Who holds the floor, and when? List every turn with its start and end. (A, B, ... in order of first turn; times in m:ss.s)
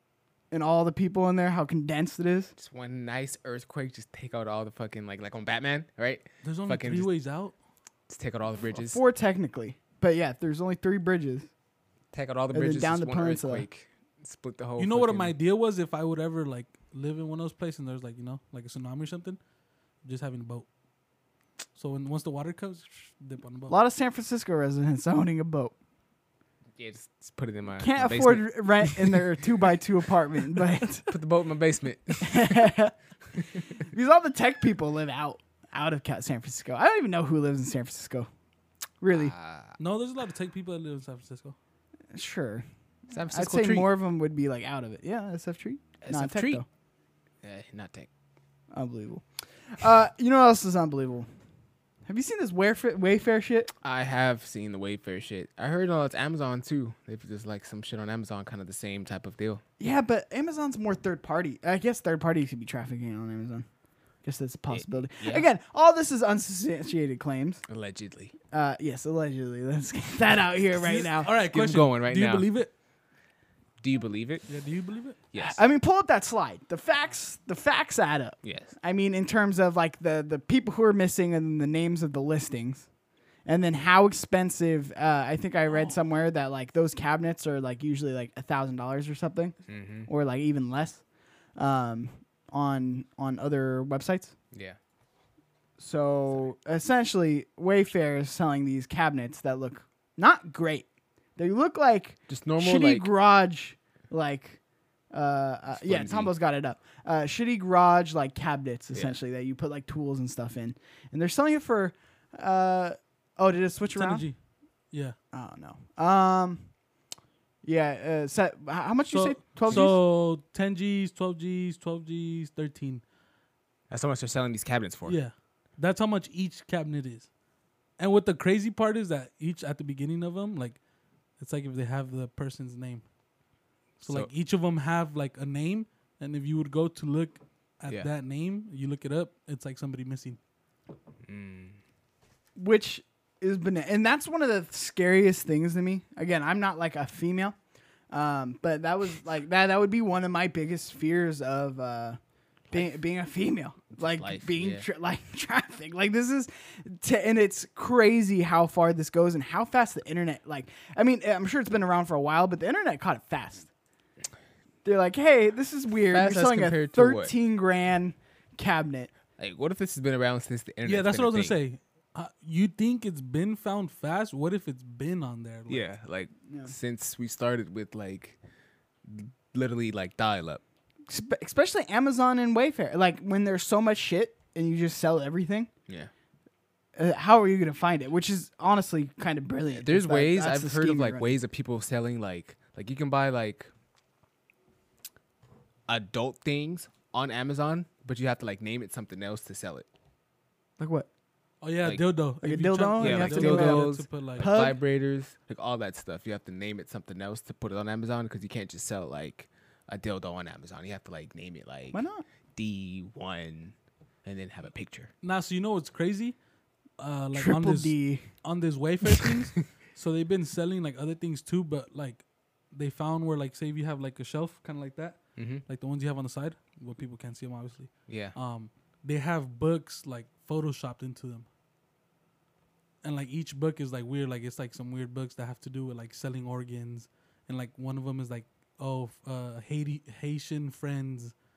0:00.5-0:02.5 A
0:02.6-0:07.1 B
0:06.4-0:07.5 C
0:08.1-0:09.0 B
0:08.7-0:11.5 A
0:12.1-0:15.4 B
0:12.5-0:13.7 A
0:14.8-0:19.4 C
0:20.0-0:20.7 C
0:21.8-0:23.8 C
0:23.7-0:25.8 A
0:26.8-0:29.2 B
0:27.8-0:31.1 A
0:31.1-0:32.7 B
0:32.2-0:32.9 A
0:33.8-0:38.3 A
0:39.0-0:39.3 A
0:39.1-0:39.8 B
0:39.8-0:41.6 C
0:42.1-0:42.7 A
0:43.1-0:43.9 B
0:43.3-0:46.7 A
0:46.0-0:46.6 B
0:47.4-0:48.1 B
0:48.7-0:51.3 A
0:52.1-0:53.7 A
0:53.8-0:59.6 B
0:59.8-1:03.7 A
1:04.2-1:07.6 A
1:04.7-1:05.5 B
1:07.7-1:08.4 B
1:08.5-1:11.3 A
1:10.8-1:12.7 C
1:11.4-1:12.5 B
1:13.8-1:14.5 B
1:14.5-1:15.2 C
1:15.3-1:15.6 B
1:15.4-1:22.9 A
1:18.4-1:18.8 B
1:23.5-1:31.0 A
1:29.7-1:30.1 B
1:31.6-1:34.4 A
1:34.5-1:34.8 B
1:35.8-1:44.6 A
1:42.3-1:43.1 B
1:45.1-1:54.3 A
1:45.7-1:46.3 B
1:53.9-1:54.4 C
1:54.9-1:55.2 C
1:55.3-1:56.7 A
1:57.6-2:00.0 A
1:59.1-2:03.0 C
1:59.7-2:00.0 B
2:03.9-2:05.2 B
2:05.1-2:07.3 C
2:08.0-2:10.8 C
2:11.4-2:13.0 C
2:14.0-2:20.4 C
2:14.0-2:14.3 B
2:21.2-2:21.8 B
2:22.6-2:27.6 A
2:28.1-2:32.2 A
2:32.7-2:43.7 A
2:33.9-2:34.9 B
2:44.8-2:49.1 A
2:46.1-2:47.3 B
2:49.4-2:51.6 B
2:50.8-2:55.9 C
2:55.7-2:58.4 B
2:56.5-2:56.7 A
2:59.0-3:00.6 B
3:01.1-3:05.7 A
3:07.0-3:11.4 A
3:09.7-3:13.7 B
3:15.9-3:19.9 B
3:20.8-3:21.1 A
3:21.6-3:24.4 C
3:22.4-3:24.8 A
3:23.0-3:35.1 B
3:31.9-3:32.2 A
3:35.2-3:36.4 C
3:37.0-3:51.5 C
3:37.3-3:38.3 A
3:45.4-3:45.6 B
3:48.1-3:48.4 B
3:53.0-4:01.3 C